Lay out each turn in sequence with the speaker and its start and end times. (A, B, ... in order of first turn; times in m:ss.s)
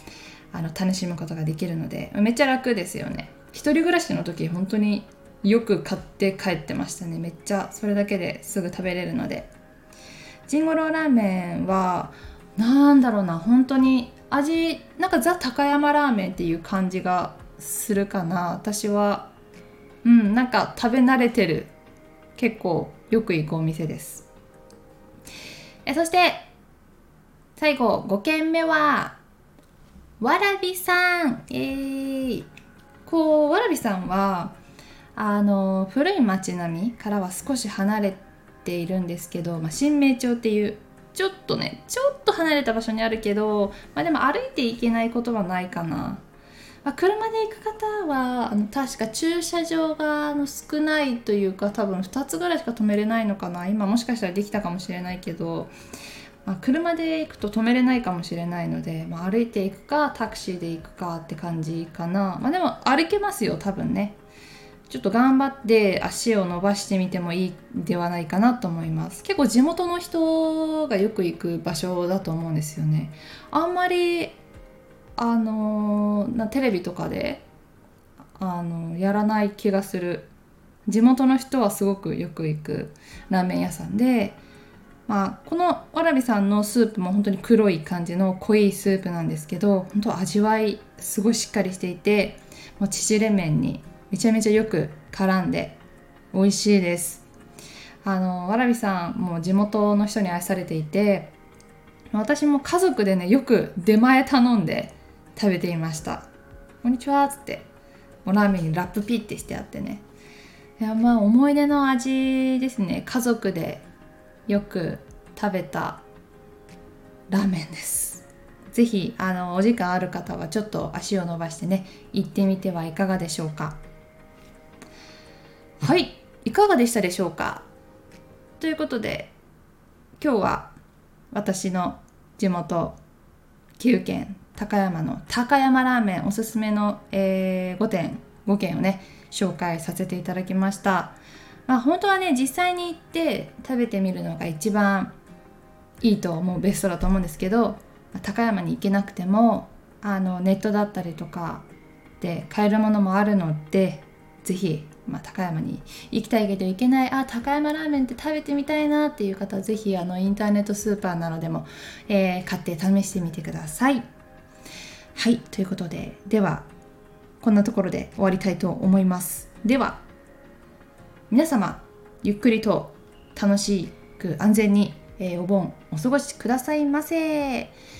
0:00.5-0:09.5 A
0:10.5-0:19.3 A
0:20.0-0:21.7 A
0:22.4-0:24.3 A
0:25.8-0:26.5 A
0:27.6-0:29.2 A
0:30.2-0:32.5 A
0:33.0-0:34.5 A
0:35.1-0:46.2 A
0:46.8-0:55.7 A
0:56.4-1:04.2 A
1:04.9-1:14.4 A
1:15.2-1:17.4 A
1:18.4-1:20.3 A
1:20.8-1:24.4 A
1:25.1-1:35.8 A
1:36.3-1:37.2 A
1:38.0-1:41.3 A
1:42.1-1:46.2 A
1:46.8-1:47.7 A
1:48.2-1:50.0 A
1:50.8-1:53.8 A
1:54.5-1:56.0 A
1:57.3-2:03.8 A
2:05.8-2:07.6 A
2:08.6-2:09.3 A
2:10.2-2:10.7 A
2:11.3-2:13.0 A
2:13.8-2:21.2 A
2:21.7-2:25.1 A
2:26.0-2:31.6 A
2:32.2-2:44.0 A
2:45.1-2:46.6 A
2:47.4-2:50.0 A
2:51.3-2:57.7 A